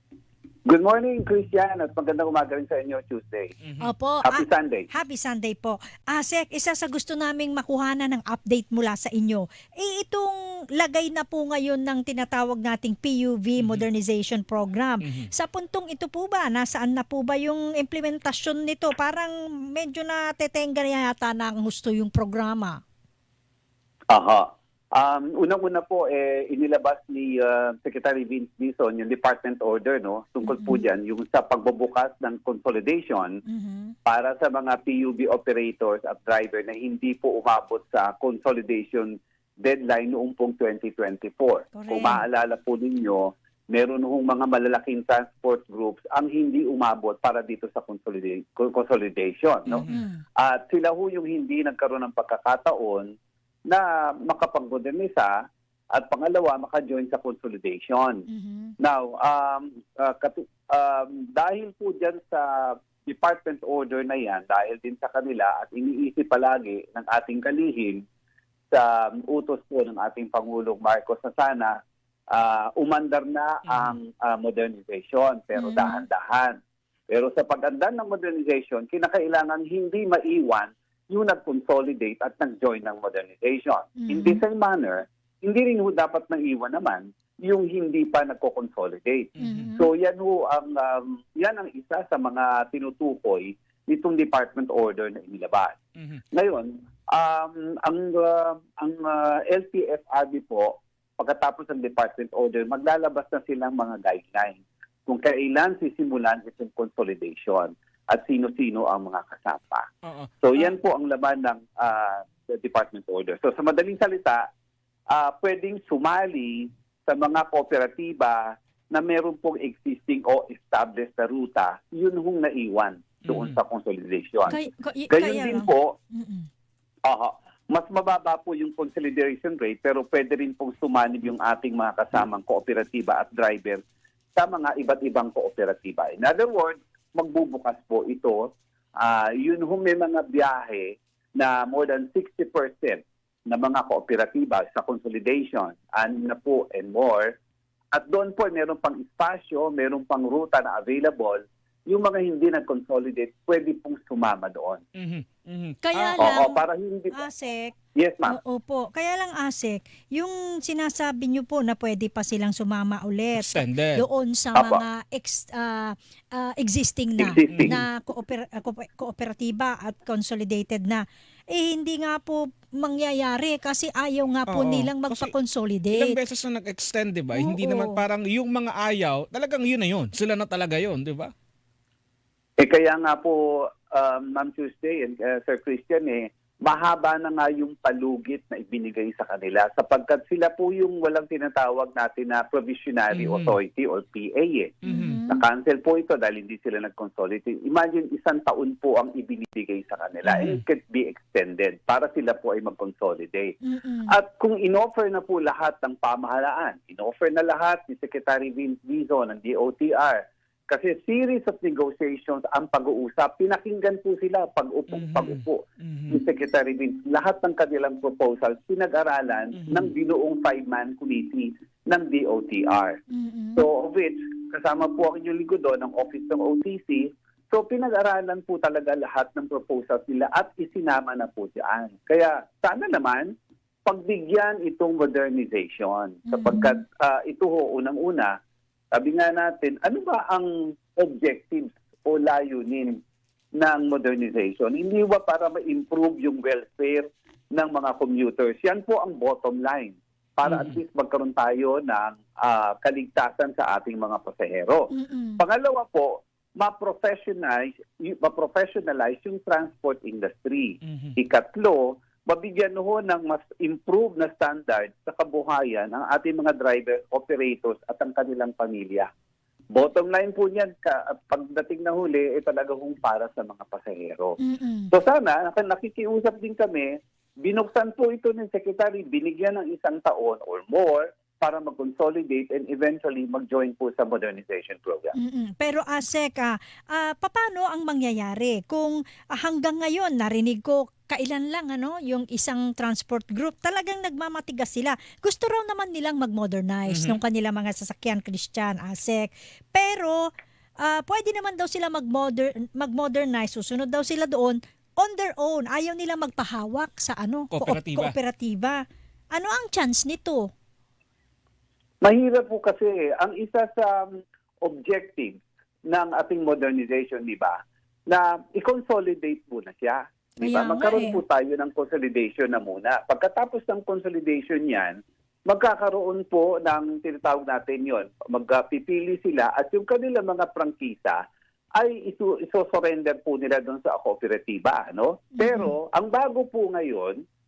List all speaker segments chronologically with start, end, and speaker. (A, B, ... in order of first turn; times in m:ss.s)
0:00.6-0:03.6 A
0:03.6-0:03.9 B
0:03.8-0:22.8 C
0:04.2-0:04.9 A
0:13.6-0:13.8 B
0:24.1-0:33.4 A
0:30.4-0:30.8 C
0:33.4-0:33.9 C
0:34.0-0:49.8 A
0:41.7-0:42.2 C
0:49.7-0:50.0 B
0:49.7-0:50.2 C
0:50.4-0:53.1 A
0:53.7-0:55.3 A
0:55.9-0:58.2 A
0:58.3-0:58.7 C
0:58.8-1:08.0 A
1:08.7-1:11.8 A
1:12.3-1:16.6 A
1:13.7-1:14.0 B
1:15.5-1:16.0 C
1:17.1-1:35.8 A
1:24.0-1:24.4 C
1:29.4-1:29.7 B
1:29.4-1:29.9 C
1:36.0-1:36.2 B
1:36.3-1:49.9 A
1:50.0-1:50.3 B
1:50.4-1:54.4 A
1:55.1-2:04.6 A
2:03.2-2:03.6 B
2:04.5-2:06.5 C
2:05.1-2:05.9 A
2:07.0-2:13.8 A
2:14.4-2:27.4 A
2:27.9-2:34.8 A
2:35.0-2:36.2 B
2:35.8-2:56.2 C
2:36.2-2:37.2 A
2:37.9-2:38.4 A
2:43.4-2:44.0 B
2:44.6-2:44.8 A
2:47.2-2:47.8 A
2:47.5-2:47.8 B
2:54.5-2:55.3 B
2:55.9-3:01.3 B
2:57.3-2:58.0 C
3:02.6-3:14.7 A
3:13.1-3:13.6 B
3:14.8-3:15.2 B
3:14.9-3:15.4 C
3:15.3-3:23.6 A
3:20.2-3:20.6 B
3:23.6-3:24.2 C
3:24.1-3:43.0 A
3:34.9-3:36.2 B
3:39.6-3:39.9 B
3:43.1-3:43.6 C
3:43.6-3:53.3 A
3:53.8-3:58.3 A
3:56.3-3:56.8 C
3:58.9-4:03.0 A
4:03.6-4:29.1 A
4:10.4-4:10.8 B
4:14.9-4:15.4 C
4:20.8-4:21.1 B
4:29.7-4:34.4 A
4:34.4-4:34.9 C
4:34.9-4:45.1 A
4:45.1-5:10.5 C
4:56.9-4:57.2 B
5:07.5-5:08.1 B
5:12.0-5:31.2 A
5:20.4-5:21.2 C
5:31.8-5:37.2 A
5:35.4-5:35.7 C